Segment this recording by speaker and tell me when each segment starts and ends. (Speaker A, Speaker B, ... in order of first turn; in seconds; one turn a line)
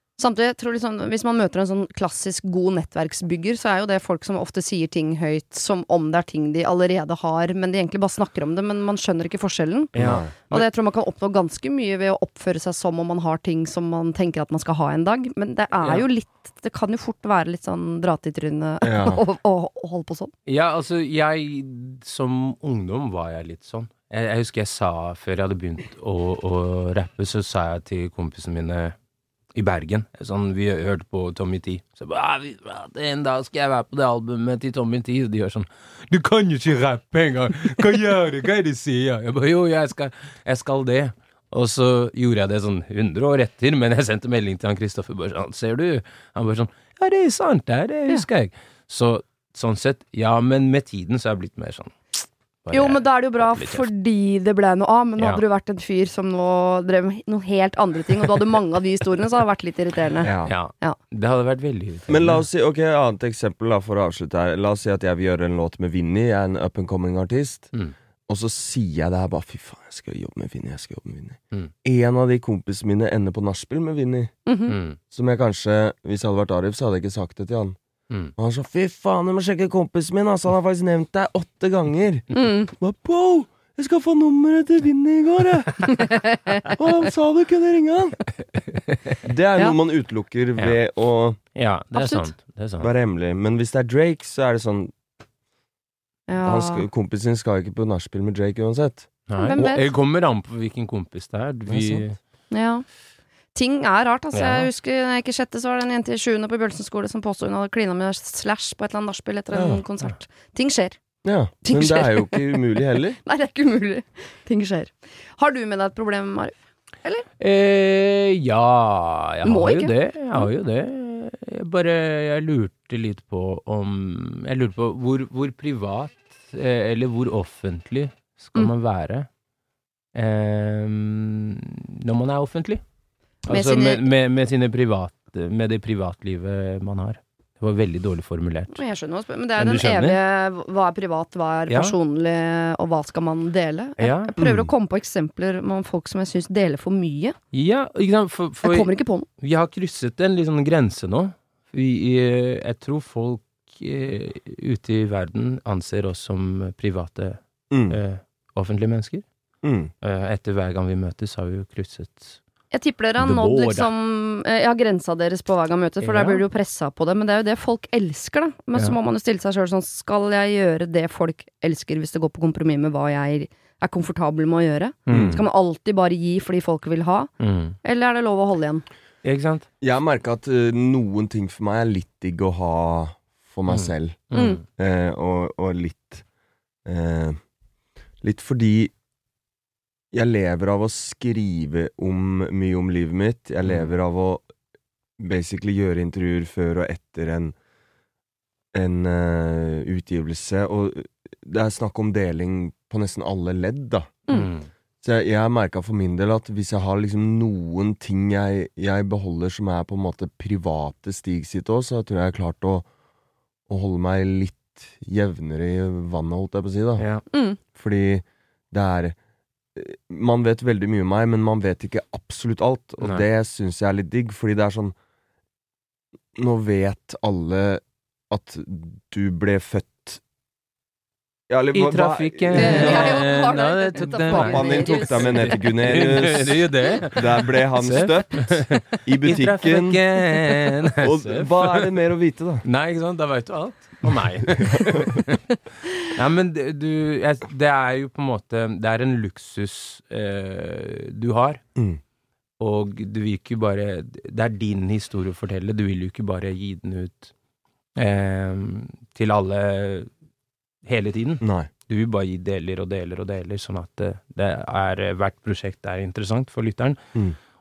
Speaker A: 0.2-9.9
Speaker B: 9.9-10.3
Speaker C: 9.9-10.7
Speaker A: 10.5-20.3
Speaker B: 15.8-16.0
Speaker C: 18.8-19.2
Speaker B: 20.5-28.9
Speaker B: 29.5-53.9
Speaker A: 52.7-61.0
Speaker C: 60.2-60.5
Speaker B: 60.4-62.5
Speaker C: 62.1-67.7
Speaker C: 68.3-74.3
Speaker A: 74.5-74.8
Speaker B: 74.7-75.0
Speaker C: 75.1-77.8
Speaker C: 78.4-86.1
Speaker A: 82.3-82.7
Speaker A: 86.1-86.6
Speaker C: 86.8-88.2
Speaker C: 89.2-91.4
Speaker B: 91.5-92.9
Speaker A: 91.9-92.3
Speaker C: 92.8-94.9
Speaker A: 96.3-96.9
Speaker C: 96.4-99.8
Speaker B: 99.3-102.2
Speaker A: 99.3-99.8
Speaker C: 101.7-102.0
Speaker A: 102.5-102.8
Speaker A: 103.5-111.0
Speaker B: 104.3-104.7
Speaker C: 109.5-109.8
Speaker C: 111.2-113.2
Speaker A: 111.6-117.3
Speaker B: 117.4-129.3
Speaker A: 119.4-120.5
Speaker B: 130.1-132.8
Speaker B: 133.4-138.8
Speaker A: 133.5-134.0
Speaker A: 138.7-147.3
Speaker B: 139.6-140.2
Speaker B: 141.7-141.9
Speaker B: 144.0-144.3
Speaker C: 144.4-144.7
Speaker B: 147.5-159.2
Speaker A: 148.6-149.3
Speaker C: 157.7-158.0
Speaker C: 159.6-159.9
Speaker B: 160.0-162.4
Speaker A: 162.7-177.3
Speaker B: 163.2-163.9
Speaker B: 166.0-166.4
Speaker B: 175.1-175.4
Speaker C: 175.1-175.4
Speaker B: 177.4-177.8
Speaker A: 177.8-178.8
Speaker B: 179.2-179.7
Speaker C: 179.8-186.2
Speaker B: 183.7-184.6
Speaker A: 184.3-184.6
Speaker C: 186.8-187.4
Speaker C: 188.2-188.9
Speaker C: 190.1-194.5
Speaker C: 195.2-197.6
Speaker C: 198.7-204.3
Speaker B: 204.3-204.7
Speaker C: 205.0-212.8
Speaker C: 213.7-217.1
Speaker B: 217.0-217.2
Speaker A: 217.3-217.6
Speaker C: 217.7-219.1
Speaker C: 219.7-224.9
Speaker C: 226.3-230.2
Speaker C: 231.5-233.3
Speaker B: 231.7-241.8
Speaker A: 232.5-235.6
Speaker C: 234.1-240.0
Speaker C: 241.0-242.6
Speaker B: 242.6-251.6
Speaker B: 252.6-257.3
Speaker B: 257.9-260.1
Speaker B: 260.8-267.0
Speaker C: 261.4-261.7